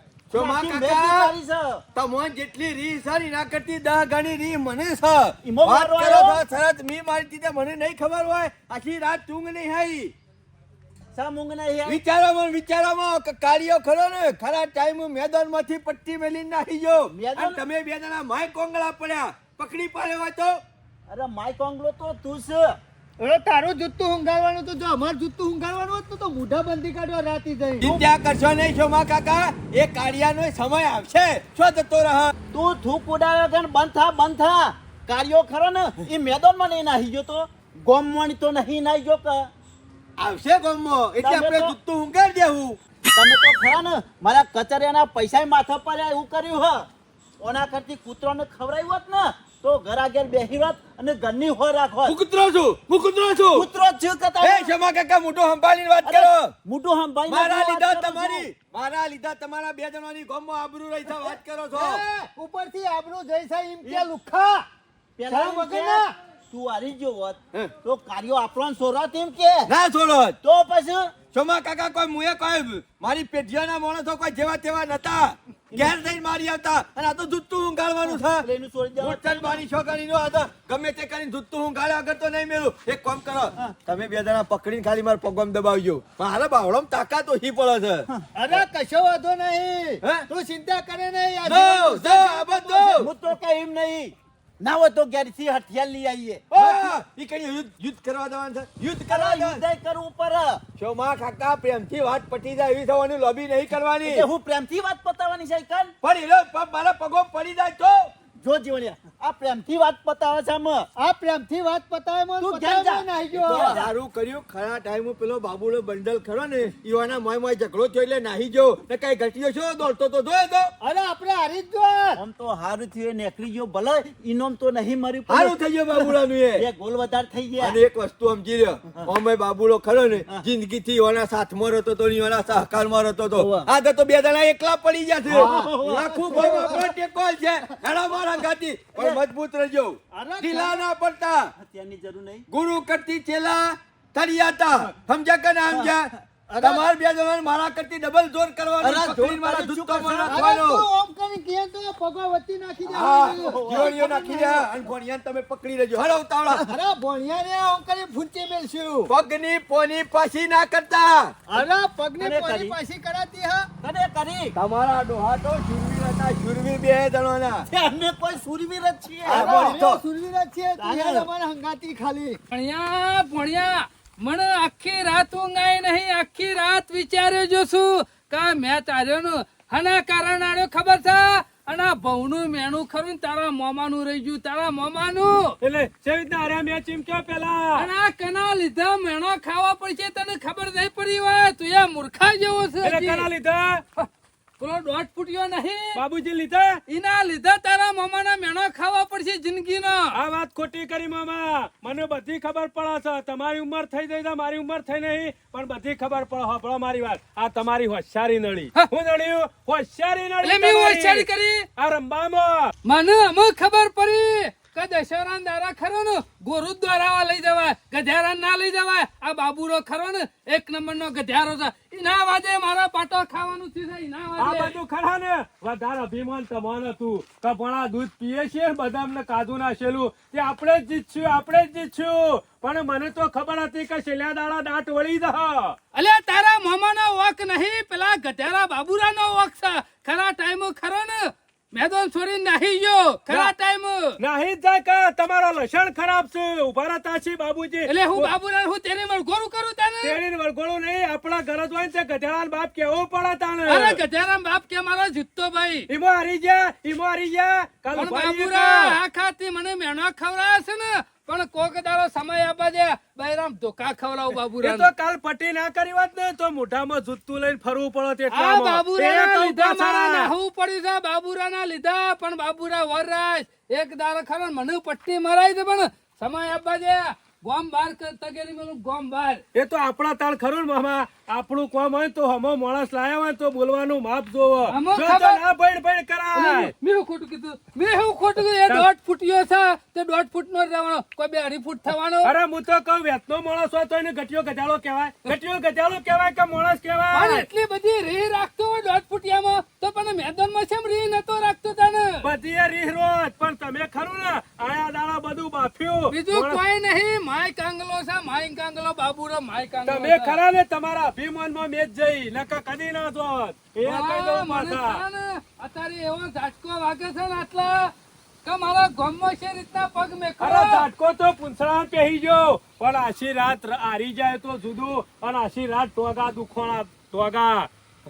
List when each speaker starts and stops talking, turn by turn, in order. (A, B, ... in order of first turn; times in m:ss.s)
0:00.3-0:01.3 A
0:00.3-0:01.8 B
0:01.9-0:10.1 A
0:05.4-0:06.4 B
0:11.1-0:12.0 B
0:11.8-0:20.6 A
0:17.1-0:17.6 B
0:21.1-0:22.8 B
0:23.2-0:28.0 C
0:27.8-0:32.3 A
0:32.5-0:39.5 B
0:40.2-0:42.8 A
0:41.2-0:41.7 B
0:43.1-0:46.9 B
0:47.4-0:52.2 B
0:52.0-0:53.7 A
0:53.5-0:54.7 B
0:54.4-0:56.5 A
0:56.0-0:58.4 B
0:57.3-1:02.0 A
1:01.7-1:04.6 C
1:05.2-1:09.7 B
1:05.3-1:06.1 C
1:09.6-1:10.4 A
1:10.4-1:11.1 B
1:11.3-1:18.4 A
1:18.1-1:19.6 B
1:19.0-1:28.1 A
1:28.3-1:33.0 C
1:31.4-1:33.1 A
1:32.9-1:36.8 B
1:36.5-1:39.6 A
1:39.1-1:40.6 B
1:40.8-1:44.3 A
1:44.0-1:45.9 B
1:46.0-1:48.1 A
1:48.4-1:50.9 B
1:51.0-1:53.8 C
1:52.4-1:53.9 B
1:53.4-2:00.7 A
2:00.8-2:02.2 C
2:02.2-2:07.8 B
2:05.3-2:06.7 A
2:07.6-2:21.5 A
2:13.4-2:13.7 B
2:15.3-2:16.9 B
2:15.3-2:16.9 C
2:18.9-2:19.2 B
2:20.2-2:20.7 B
2:21.6-2:22.5 B
2:22.5-2:30.8 A
2:26.5-2:26.8 B
2:28.8-2:30.5 B
2:30.2-2:34.7 C
2:32.9-2:36.6 A
2:33.3-2:33.9 B
2:36.5-2:39.1 C
2:39.1-2:41.3 A
2:41.5-2:43.7 C
2:42.2-2:42.8 B
2:43.8-2:44.5 B
2:44.5-2:47.7 A
2:47.7-2:49.8 B
2:49.2-2:50.0 A
2:49.3-2:52.4 C
2:50.8-2:51.2 B
2:52.5-3:05.6 D
3:05.6-3:07.9 E
3:07.7-3:13.3 D
3:12.8-3:13.8 E
3:14.6-3:16.0 D
3:15.9-3:16.8 E
3:16.9-3:20.1 D
3:20.1-3:32.7 E
3:30.4-3:31.6 D
3:32.8-3:44.8 D
3:44.4-3:55.8 E
3:55.9-4:04.2 D
4:04.2-4:08.3 E
4:07.9-4:10.2 D
4:10.0-4:14.0 E
4:13.7-4:15.9 D
4:15.9-4:19.0 E
4:17.9-4:24.9 D
4:24.6-4:30.3 E
4:28.3-4:39.4 D
4:39.5-4:46.7 E
4:44.7-4:45.4 D
4:46.3-4:52.3 D
4:52.2-4:57.5 E
4:57.1-5:02.3 D
5:02.2-5:06.6 E
5:06.1-5:10.4 D
5:09.8-5:15.0 E
5:13.8-5:17.9 D
5:18.4-5:20.8 D
5:20.4-5:27.7 E